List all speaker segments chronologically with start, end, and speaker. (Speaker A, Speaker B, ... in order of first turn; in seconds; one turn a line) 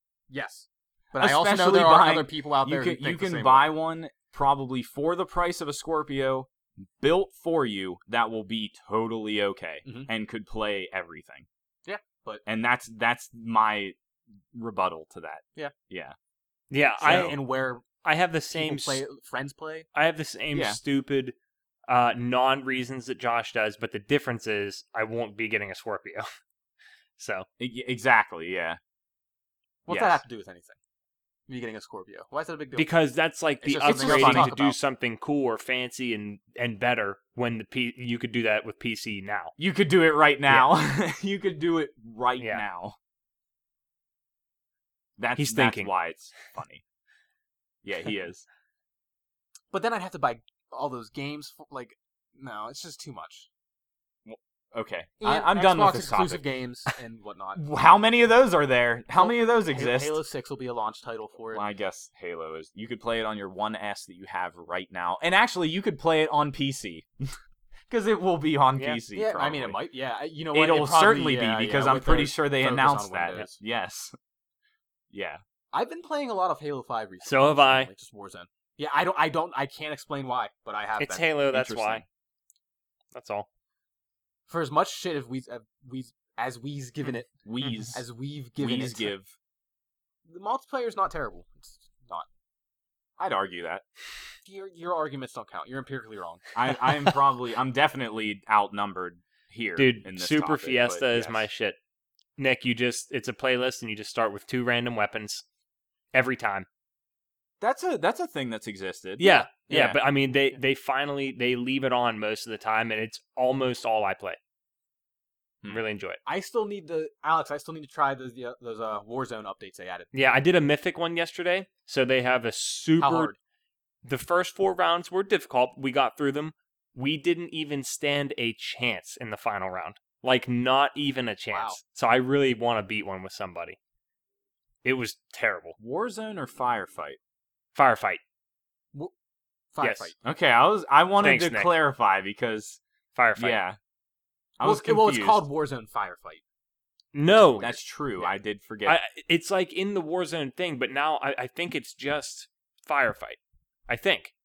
Speaker A: 0.3-3.7
Speaker B: 1.1-11.5
Speaker A: 11.8-12.4
Speaker B: 12.4-13.9
Speaker B: 14.5-16.1
Speaker C: 16.7-17.4
Speaker A: 17.0-17.8
Speaker C: 18.0-19.0
Speaker A: 18.5-19.9
Speaker C: 19.9-21.3
Speaker B: 20.5-20.8
Speaker C: 21.9-26.3
Speaker C: 27.2-27.4
Speaker B: 27.6-28.8
Speaker A: 29.9-30.8
Speaker B: 29.9-30.2
Speaker A: 31.5-32.9
Speaker C: 32.8-39.5
Speaker A: 33.6-34.8
Speaker B: 33.8-34.5
Speaker B: 39.6-43.0
Speaker C: 42.4-42.6
Speaker B: 45.2-46.8
Speaker C: 45.4-45.9
Speaker B: 47.8-48.5
Speaker A: 49.7-53.5
Speaker B: 54.2-56.4
Speaker A: 55.2-57.6
Speaker B: 57.6-60.2
Speaker A: 59.1-61.6
Speaker B: 61.5-67.4
Speaker B: 67.9-69.8
Speaker A: 69.1-73.6
Speaker B: 70.5-74.1
Speaker B: 75.1-75.4
Speaker A: 75.7-81.3
Speaker C: 77.2-77.9
Speaker C: 81.0-82.0
Speaker B: 81.5-82.0
Speaker C: 83.1-83.5
Speaker A: 84.5-87.3
Speaker B: 87.4-88.0
Speaker A: 87.9-89.1
Speaker B: 88.6-89.3
Speaker A: 90.2-92.2
Speaker B: 93.2-93.8
Speaker A: 94.4-96.4
Speaker B: 96.5-101.5
Speaker C: 99.8-101.8
Speaker C: 102.4-105.4
Speaker C: 106.1-106.7
Speaker B: 107.6-109.5
Speaker C: 109.2-114.4
Speaker A: 109.2-110.0
Speaker C: 115.7-116.2
Speaker A: 116.2-120.1
Speaker C: 120.1-123.3
Speaker A: 123.0-123.4
Speaker C: 124.0-133.8
Speaker A: 131.5-131.8
Speaker C: 134.8-135.8
Speaker B: 135.8-137.2
Speaker C: 137.7-138.2
Speaker A: 139.7-140.1
Speaker C: 139.8-140.1
Speaker B: 140.2-142.8
Speaker C: 141.2-141.7
Speaker C: 143.1-143.6
Speaker B: 143.4-143.8
Speaker B: 144.6-145.4
Speaker A: 144.6-146.4
Speaker C: 147.1-147.7
Speaker B: 147.6-149.0
Speaker A: 147.6-148.3
Speaker C: 148.8-154.3